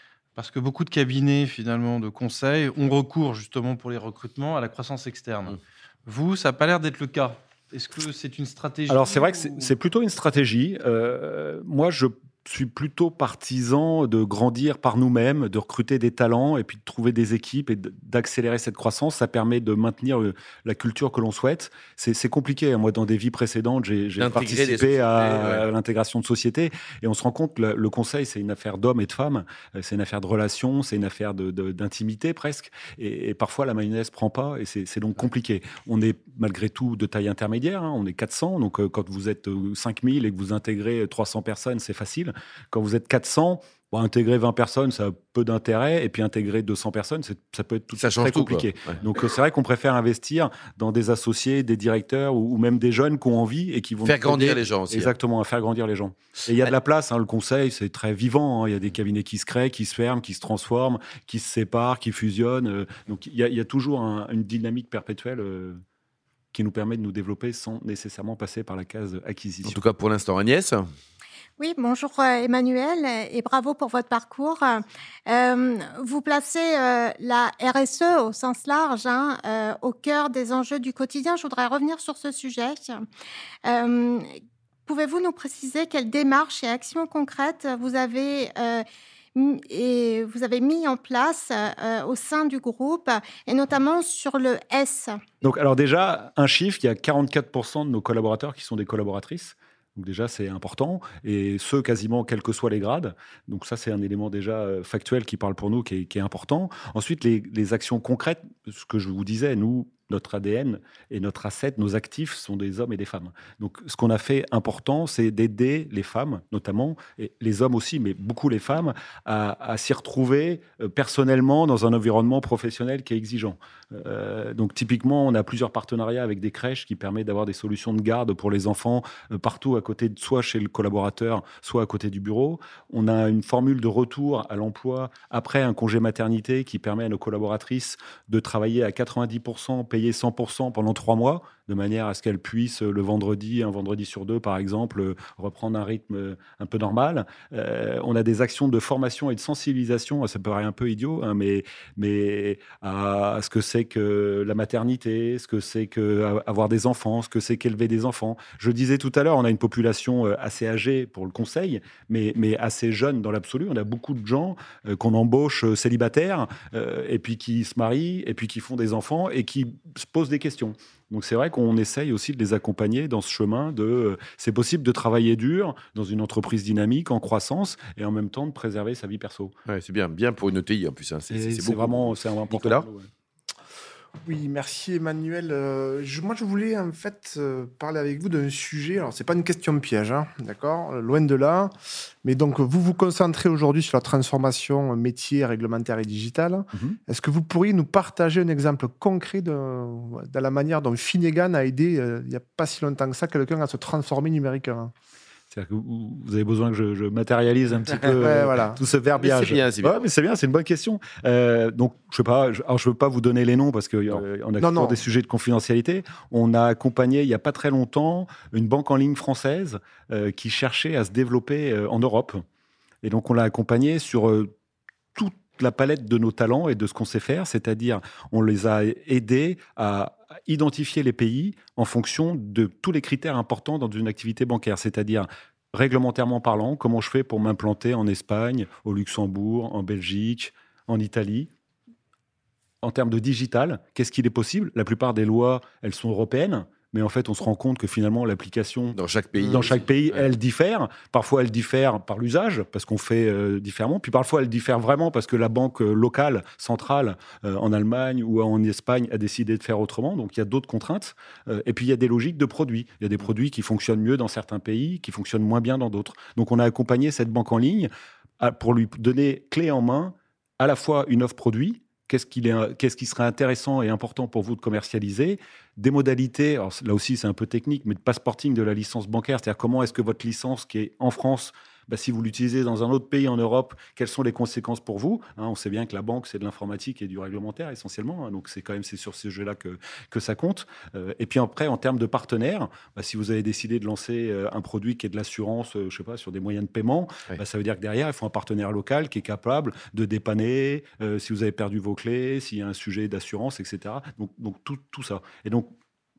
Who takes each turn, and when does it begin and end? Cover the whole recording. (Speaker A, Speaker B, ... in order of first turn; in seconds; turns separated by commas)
Speaker A: 0.3-9.7, Speaker B: 8.9-65.8, Speaker C: 24.2-25.6, Speaker C: 48.0-48.9, Speaker C: 54.0-55.1, Speaker B: 66.5-69.8, Speaker C: 69.6-70.8, Speaker D: 71.6-83.0, Speaker D: 83.6-84.3, Speaker D: 84.8-88.8, Speaker D: 89.3-95.2, Speaker B: 95.4-179.5, Speaker C: 179.7-182.8, Speaker B: 181.3-183.1, Speaker E: 184.2-191.7, Speaker E: 192.2-204.9, Speaker B: 205.5-222.4, Speaker E: 208.2-208.8, Speaker C: 209.2-210.0, Speaker E: 214.6-215.0, Speaker B: 223.0-224.5, Speaker B: 225.1-241.5, Speaker B: 242.8-305.7, Speaker C: 248.9-250.3